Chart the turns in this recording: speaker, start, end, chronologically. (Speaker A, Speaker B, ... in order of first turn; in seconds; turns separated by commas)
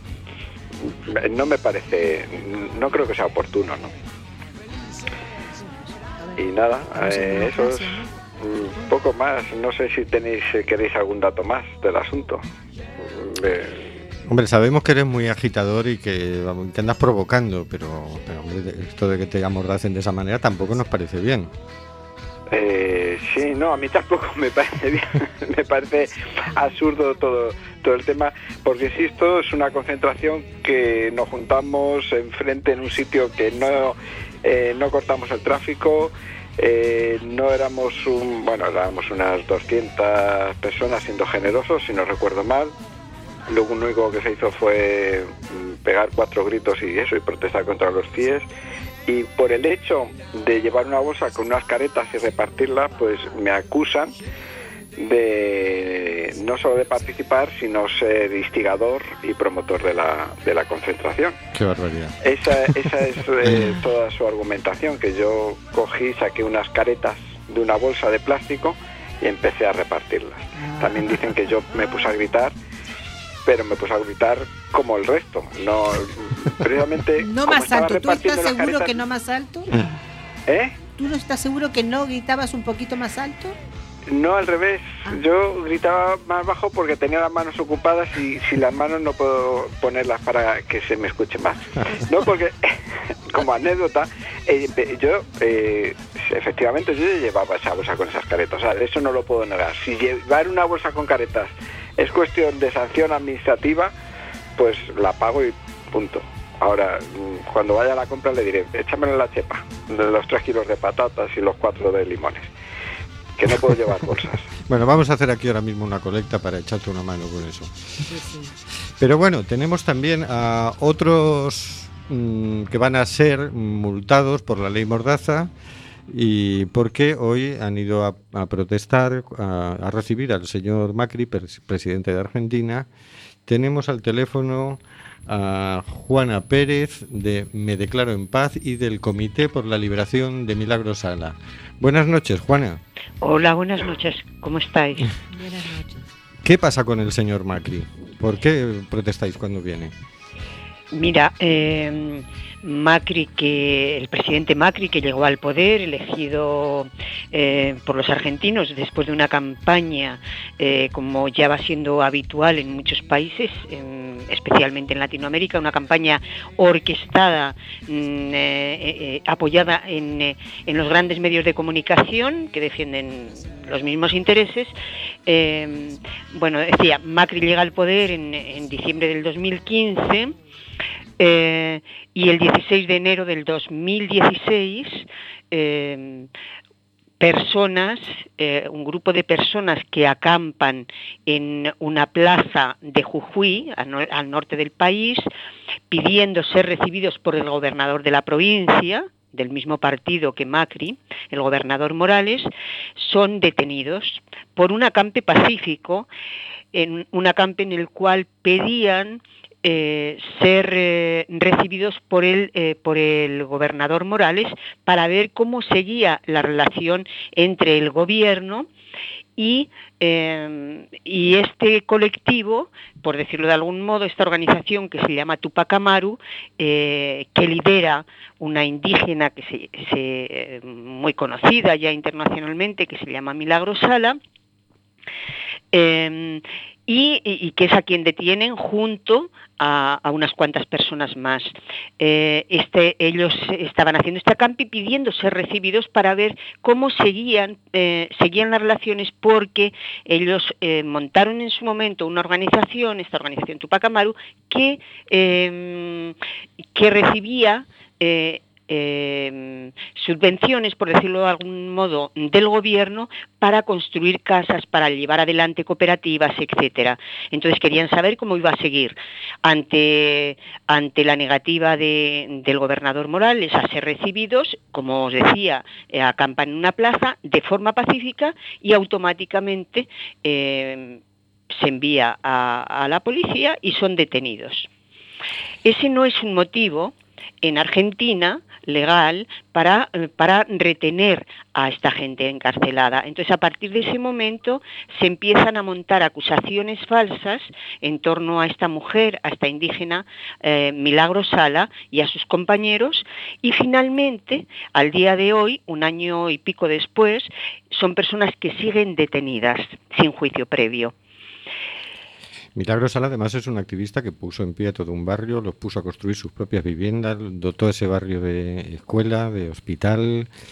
Speaker A: 0.8-3.9, Speaker A: 6.4-12.5, Speaker B: 6.9-8.9, Speaker A: 13.0-13.9, Speaker C: 14.2-21.5, Speaker A: 22.5-42.7, Speaker A: 43.5-48.4, Speaker A: 49.0-54.1, Speaker A: 55.0-61.4, Speaker C: 61.5-62.1, Speaker A: 62.2-72.5, Speaker B: 70.6-71.2, Speaker A: 73.4-79.0, Speaker B: 77.2-79.8, Speaker A: 80.5-80.7, Speaker B: 81.0-83.6, Speaker A: 84.1-92.6, Speaker A: 93.3-103.9, Speaker A: 104.6-112.5, Speaker A: 113.3-114.5, Speaker C: 114.6-117.7, Speaker B: 118.0-118.6, Speaker C: 119.0-125.5, Speaker C: 126.1-132.9, Speaker C: 133.4-142.8, Speaker D: 143.2-145.1, Speaker B: 145.3-146.1, Speaker C: 146.4-149.9, Speaker D: 150.9-174.7, Speaker D: 175.2-180.3, Speaker D: 181.2-186.3, Speaker D: 187.2-195.2, Speaker D: 195.9-206.1, Speaker D: 206.7-218.7, Speaker D: 219.4-234.2, Speaker D: 235.7-256.1, Speaker D: 256.7-281.0, Speaker D: 281.5-284.7, Speaker D: 285.6-310.9, Speaker C: 312.5-320.3